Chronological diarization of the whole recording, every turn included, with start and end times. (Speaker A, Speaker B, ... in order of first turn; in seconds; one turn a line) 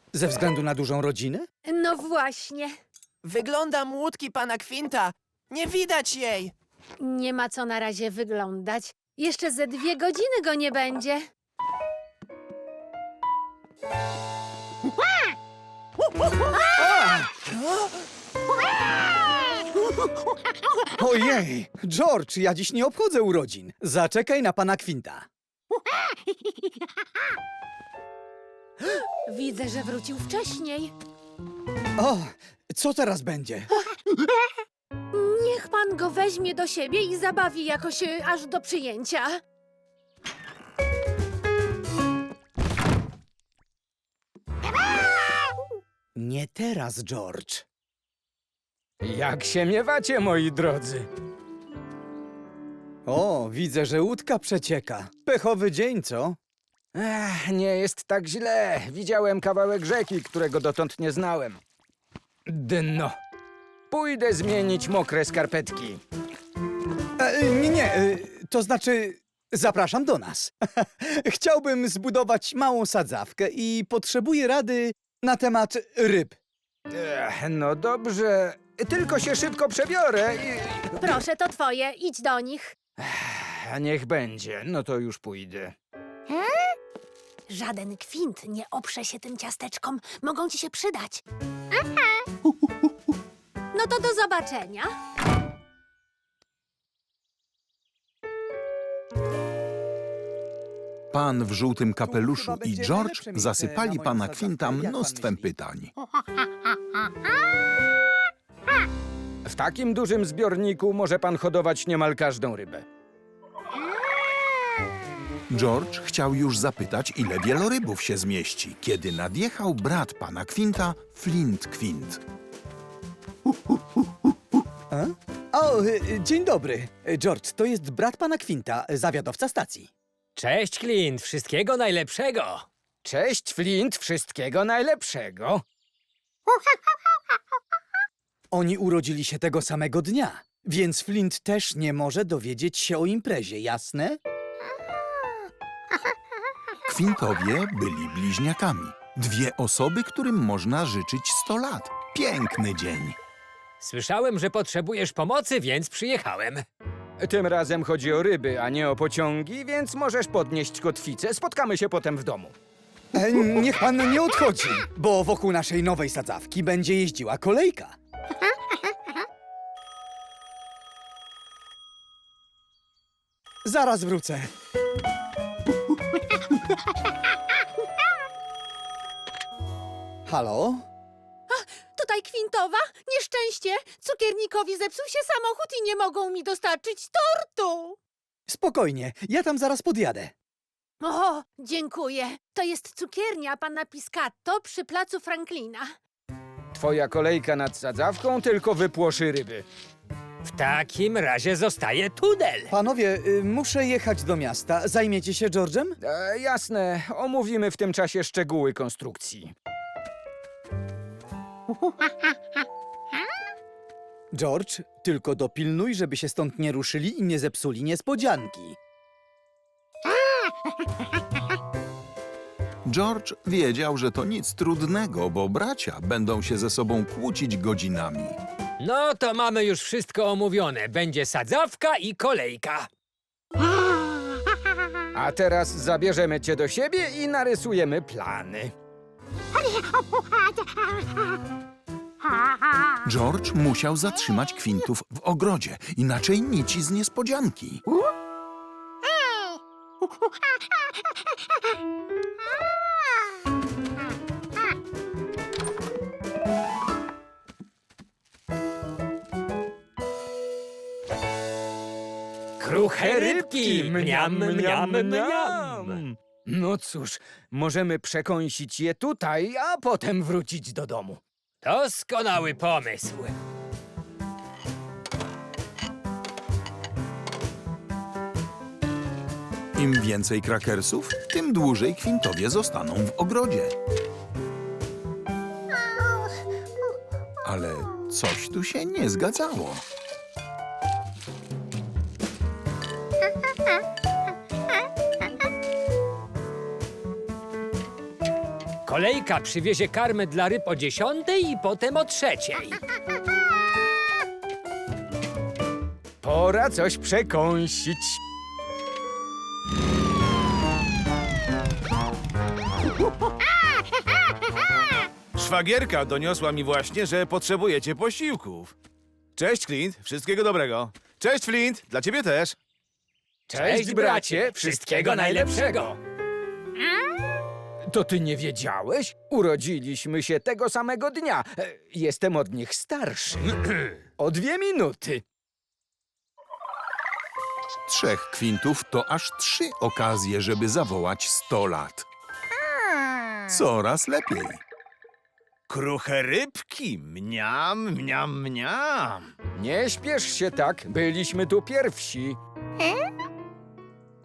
Speaker A: 0.1-1.5
Speaker B: 1.6-2.7
Speaker C: 3.2-6.5
Speaker B: 7.0-11.2
Speaker A: 16.7-17.5
Speaker A: 20.9-25.3
Speaker B: 29.3-30.9
Speaker A: 32.0-33.8
Speaker B: 35.1-39.4
Speaker A: 46.2-47.6
Speaker D: 49.0-51.1
Speaker A: 53.1-56.4
Speaker D: 57.0-61.6
Speaker D: 62.5-63.1
Speaker D: 63.9-66.0
Speaker A: 67.2-76.4
Speaker D: 76.9-81.2
Speaker B: 81.0-82.8
Speaker D: 83.0-85.7
Speaker B: 87.5-91.2
Speaker B: 93.7-94.9
Speaker E: 101.1-105.9
Speaker A: 102.0-105.5
Speaker D: 109.5-112.8
Speaker E: 115.5-122.2
Speaker A: 124.9-129.9
Speaker F: 130.4-132.7
Speaker D: 133.0-135.6
Speaker A: 138.5-144.2
Speaker E: 146.9-153.2
Speaker F: 153.8-156.7
Speaker D: 157.2-162.5
Speaker A: 163.1-168.0
Speaker A: 173.7-174.5
Speaker A: 180.3-180.8
Speaker B: 181.5-188.0
Speaker A: 188.5-190.3
Speaker B: 191.0-195.9
Speaker D: 196.7-199.7
Speaker F: 200.4-202.7
Speaker A: 202.7-206.0
Speaker D: 206.0-209.5
Speaker A: 214.3-218.8
Speaker E: 222.8-228.4
Speaker F: 228.8-232.9
Speaker D: 235.2-238.7
Speaker E: 243.1-247.8
Speaker F: 262.6-266.0
Speaker D: 262.7-271.2
Speaker F: 271.6-273.4
Speaker E: 279.8-283.7
Speaker E: 287.4-289.9
Speaker F: 298.9-302.8
Speaker D: 306.2-308.2
Speaker G: 315.4-318.8
Speaker G: 319.4-322.6
Speaker F: 323.5-325.9
Speaker D: 323.5-326.0
Speaker D: 327.9-333.6
Speaker D: 334.2-335.2
Speaker E: 337.9-342.1
Speaker E: 343.5-344.6
Speaker G: 345.7-349.3
Speaker D: 349.6-352.4